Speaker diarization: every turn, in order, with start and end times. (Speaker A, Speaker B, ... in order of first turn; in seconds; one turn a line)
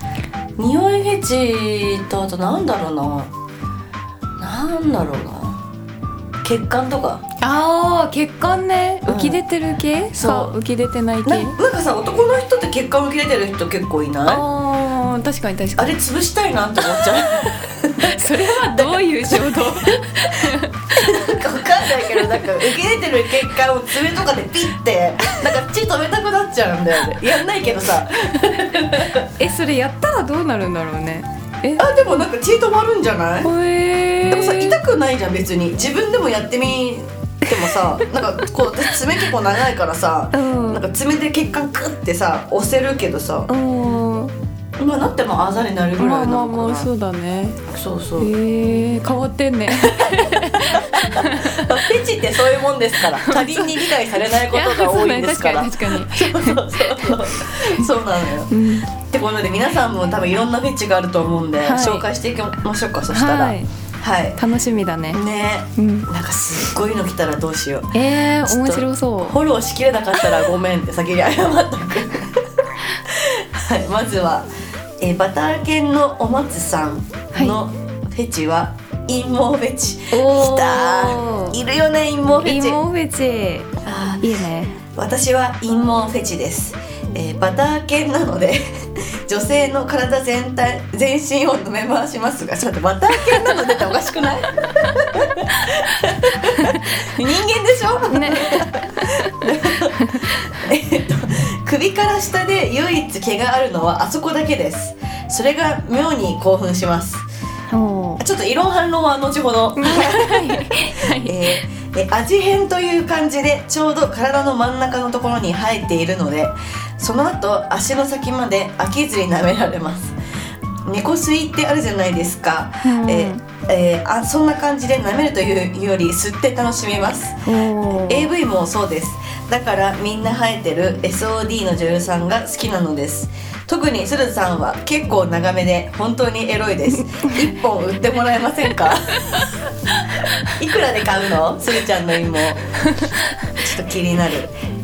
Speaker A: 0.6-3.3
Speaker A: 4.4-5.6
Speaker A: 6.4-7.2
Speaker B: 7.4-11.6
Speaker A: 9.1-9.4
Speaker A: 10.1-10.6
Speaker A: 11.2-14.4
Speaker B: 14.3-15.9
Speaker A: 15.8-29.3
Speaker B: 18.0-21.2
Speaker B: 21.9-22.6
Speaker B: 29.4-32.2
Speaker A: 31.8-33.5
Speaker B: 33.4-34.8
Speaker A: 34.3-43.5
Speaker B: 37.5-37.8
Speaker B: 40.3-40.8
Speaker B: 43.5-44.3
Speaker A: 44.8-46.9
Speaker B: 46.0-47.6
Speaker A: 47.7-48.3
Speaker B: 48.2-51.9
Speaker A: 49.7-64.4
Speaker B: 53.1-57.9
Speaker B: 58.5-58.9
Speaker B: 61.6-62.1
Speaker B: 63.1-63.7
Speaker B: 64.4-65.2
Speaker A: 65.1-74.5
Speaker B: 65.8-66.1
Speaker B: 67.9-69.4
Speaker A: 75.0-82.8
Speaker B: 77.3-77.6
Speaker B: 80.1-81.6
Speaker B: 82.4-84.8
Speaker A: 83.8-84.3
Speaker A: 84.8-107.3
Speaker B: 96.5-97.0
Speaker B: 98.1-100.5
Speaker B: 107.7-108.2
Speaker A: 108.2-120.2
Speaker B: 109.8-111.6
Speaker A: 120.8-139.5
Speaker B: 122.8-123.4
Speaker B: 127.5-128.3
Speaker B: 137.2-137.5
Speaker A: 140.4-142.6
Speaker B: 142.9-143.2
Speaker A: 143.6-144.5